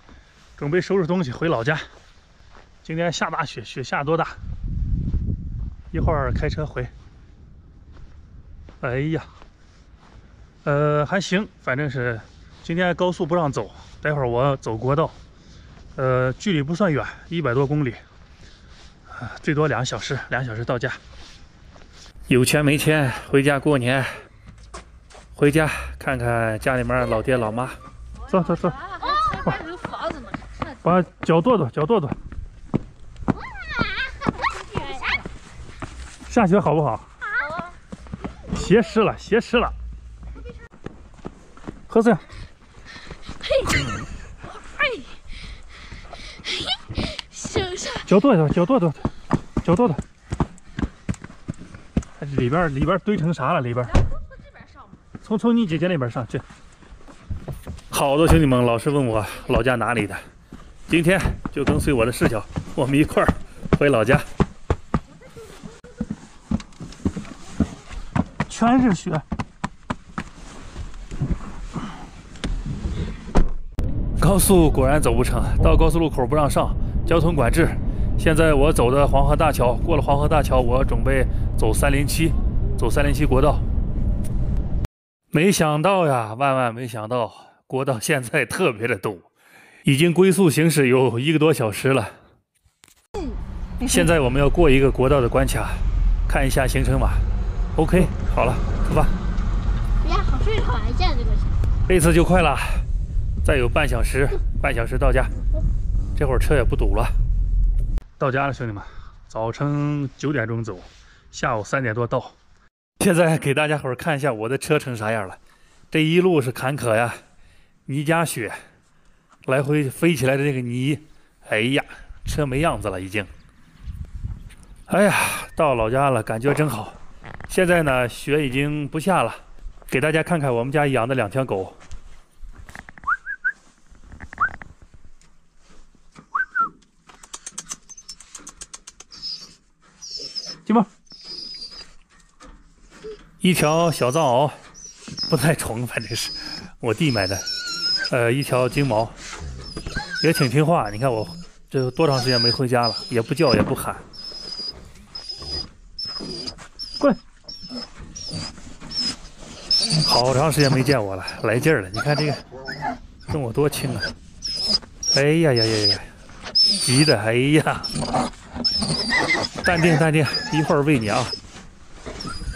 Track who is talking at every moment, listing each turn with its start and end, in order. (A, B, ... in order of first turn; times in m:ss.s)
0:00.6-0:01.8 A
0:02.8-0:04.4 A
0:05.9-0:06.9 A
0:08.8-0:09.3 A
0:10.6-0:15.2 A
0:16.0-0:18.0 A
0:19.1-0:21.0 A
0:22.3-0:24.1 A
0:25.3-0:27.8 A
0:28.3-0:28.9 A
0:29.0-0:30.4 B
0:30.7-0:32.2 A
0:33.4-0:35.2 B
0:36.3-0:37.1 A
0:37.4-0:37.7 B
0:38.5-0:39.7 A
0:41.9-0:42.2 A
0:43.4-0:43.9 B
0:44.7-0:45.1 B
0:46.4-0:48.1 B
0:48.0-0:49.0 A
0:49.6-0:50.0 A
0:52.2-0:54.0 A
0:55.2-0:56.4 A
0:57.9-1:00.2 A
1:00.9-1:04.2 A
1:08.5-1:09.3 A
1:14.2-1:23.6 A
1:25.3-1:29.3 A
1:29.8-1:32.1 A
1:33.8-1:37.2 A
1:37.8-1:39.1 A
1:40.0-1:41.6 B
1:41.9-1:42.8 A
1:43.4-1:45.3 A
1:46.2-1:47.1 A
1:48.2-1:52.3 A
1:53.0-1:55.4 A
1:55.9-1:57.2 A
1:57.9-1:58.6 A
1:59.5-2:03.3 A
2:04.9-2:07.0 A
2:07.5-2:11.8 A
2:23.4-2:24.6 A
2:25.3-2:27.4 A
2:28.0-2:29.2 A
2:30.2-2:34.0 A
2:40.0-2:42.4 A
2:43.3-2:44.1 A
2:45.1-2:46.1 A
2:46.8-2:47.9 A
2:49.6-2:51.3 A